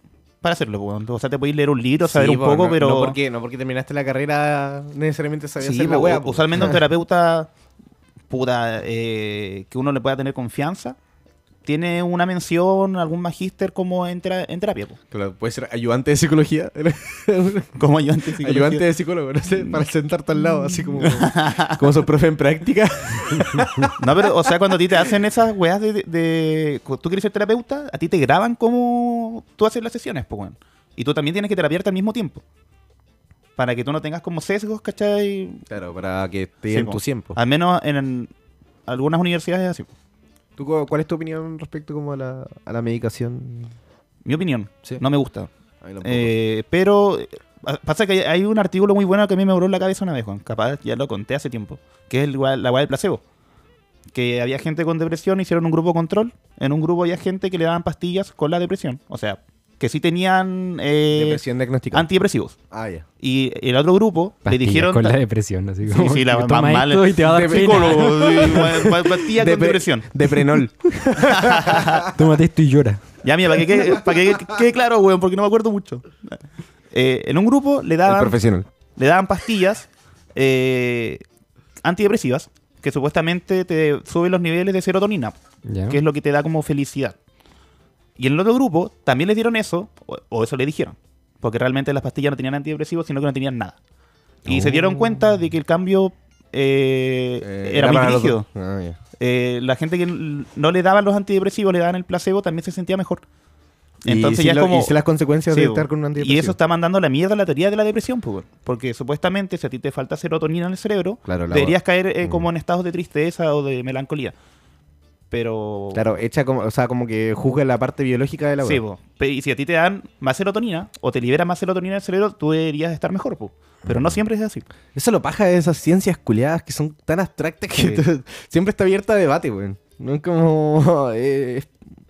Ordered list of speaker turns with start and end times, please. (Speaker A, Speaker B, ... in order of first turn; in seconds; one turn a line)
Speaker A: 0.4-3.2
Speaker B: 2.1-6.8
Speaker A: 5.6-7.5
Speaker A: 8.3-11.0
Speaker A: 11.7-15.0
Speaker B: 15.1-17.8
Speaker A: 17.8-18.8
Speaker B: 18.4-25.1
Speaker A: 21.0-21.8
Speaker A: 24.0-32.4
Speaker A: 33.6-35.6
Speaker B: 35.7-37.4
Speaker A: 36.7-38.3
Speaker A: 38.9-39.9
Speaker B: 40.6-43.7
Speaker A: 44.2-45.5
Speaker B: 45.8-46.3
Speaker A: 46.0-53.2
Speaker A: 54.1-62.5
Speaker B: 61.1-62.1
Speaker B: 62.7-63.0
Speaker A: 63.2-65.2
Speaker C: 64.5-68.8
Speaker A: 65.9-70.1
Speaker B: 67.2-72.1
Speaker A: 71.2-72.1
Speaker C: 72.0-73.0
Speaker A: 73.2-76.3
Speaker B: 73.7-74.4
Speaker A: 76.9-78.4
Speaker B: 78.1-78.7
Speaker A: 79.0-81.2
Speaker A: 81.8-85.4
Speaker C: 85.7-86.0
Speaker A: 85.9-87.2
Speaker A: 88.2-93.8
Speaker A: 94.5-98.5
Speaker B: 94.5-95.2
Speaker B: 97.4-99.0
Speaker A: 99.2-103.2
Speaker A: 104.0-105.0
Speaker B: 104.0-106.6
Speaker A: 105.5-114.3
Speaker B: 111.3-112.5
Speaker A: 115.3-116.1
Speaker B: 115.9-118.8
Speaker A: 118.6-124.7
Speaker B: 123.9-124.2
Speaker B: 124.9-131.7
Speaker A: 127.8-128.0